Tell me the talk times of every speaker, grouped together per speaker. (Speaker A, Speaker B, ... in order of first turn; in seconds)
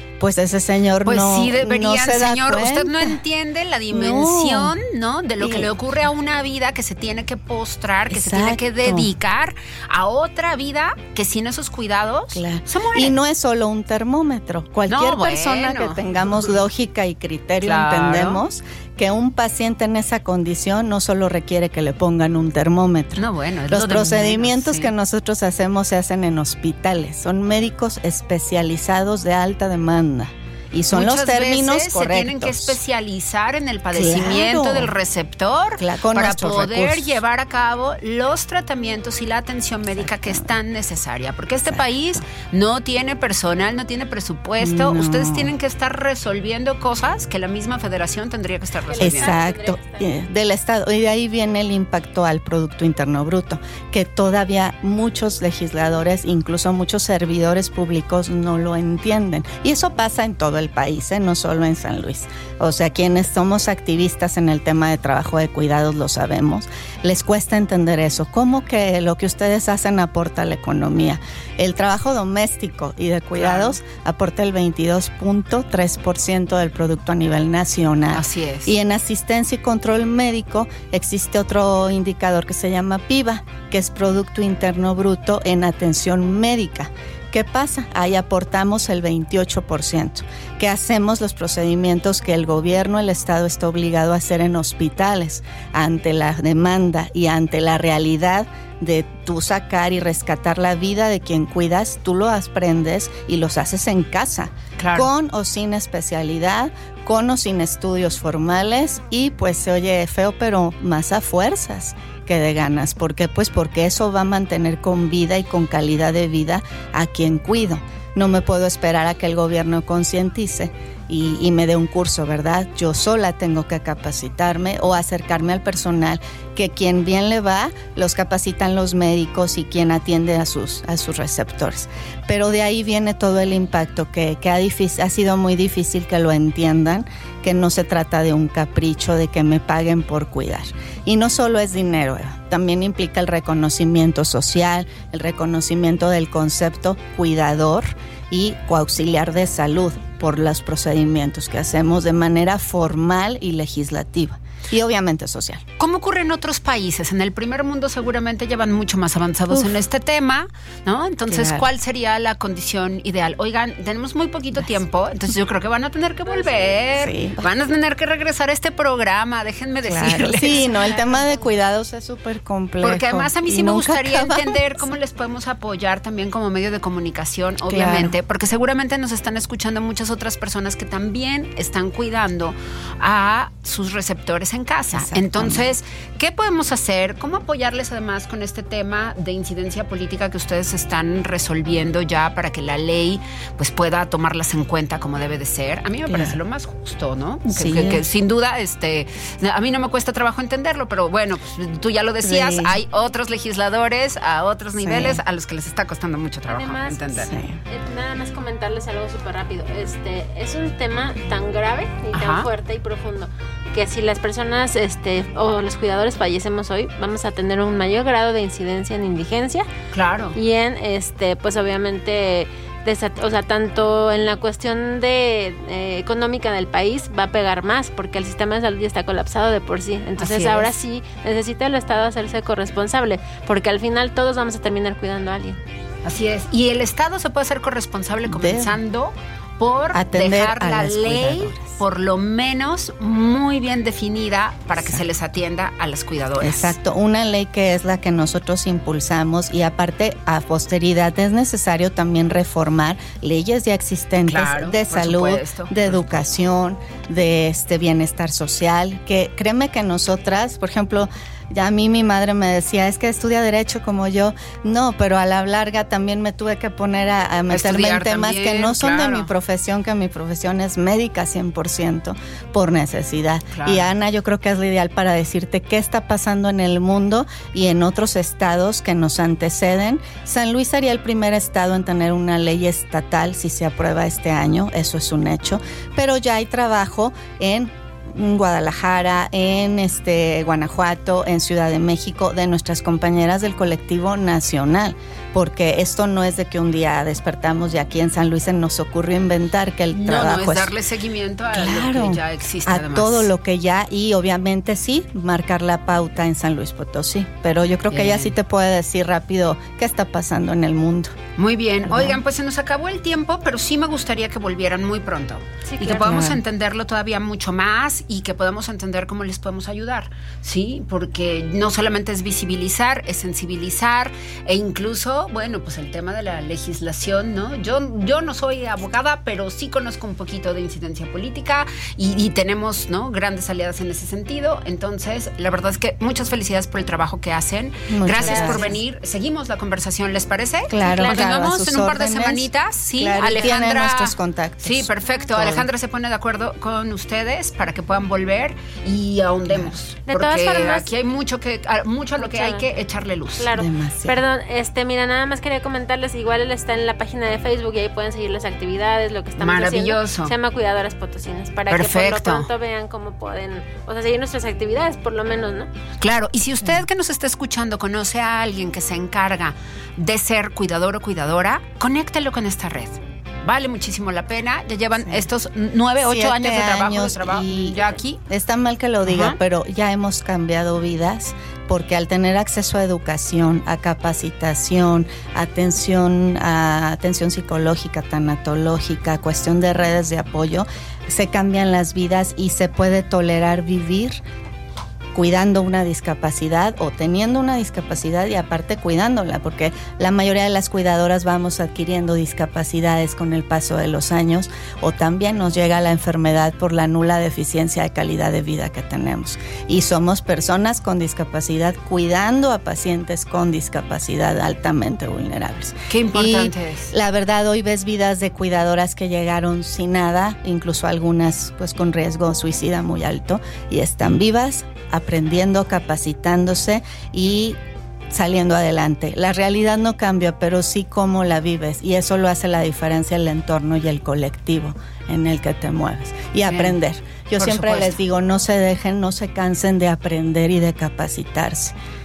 Speaker A: 0.2-3.2, 3.9-4.7, 5.4-5.7, 8.1-9.1, 12.3-32.8, 33.9-34.9, 35.8-37.2, 40.0-40.5, 41.7-42.2, 44.6-45.5, 49.0-155.6, 161.3-161.7, 166.9-167.4, 169.8-174.8, 177.7-178.1, 184.9-185.6, 196.1-196.4, 197.5-198.0, 202.2-202.8, 204.7-205.2, 207.2-207.6, 238.3-238.8, 239.9-241.7, 246.4-300.7, 301.5-311.1, 311.9-312.2, 316.1-316.4, 337.9-338.8, 340.7-345.7, 353.5-354.2, 375.0-375.2, 376.0-394.2, 395.1-427.6, 428.1-441.7
Speaker B: 1.0-13.2, 14.9-16.4, 17.6-18.4, 23.1-24.9, 30.9-49.4, 73.3-73.8, 78.1-78.7, 104.8-105.1, 155.8-170.7, 172.8-207.3, 212.1-212.4, 219.9-220.3, 230.2-230.7, 236.0-246.8, 254.2-256.1, 267.5-269.3, 273.5-273.9, 299.9-303.3, 307.9-308.3, 311.4-353.4, 359.4-360.3, 361.7-362.5, 366.0-378.2, 379.0-379.4, 415.9-416.9, 436.4-436.8, 437.4-437.9
Speaker C: 48.8-50.1, 166.2-167.1, 170.7-171.5, 206.5-219.7, 220.3-235.6, 315.7-316.3, 338.2-338.7, 340.8-341.2, 350.1-350.9, 352.2-352.7, 353.4-365.7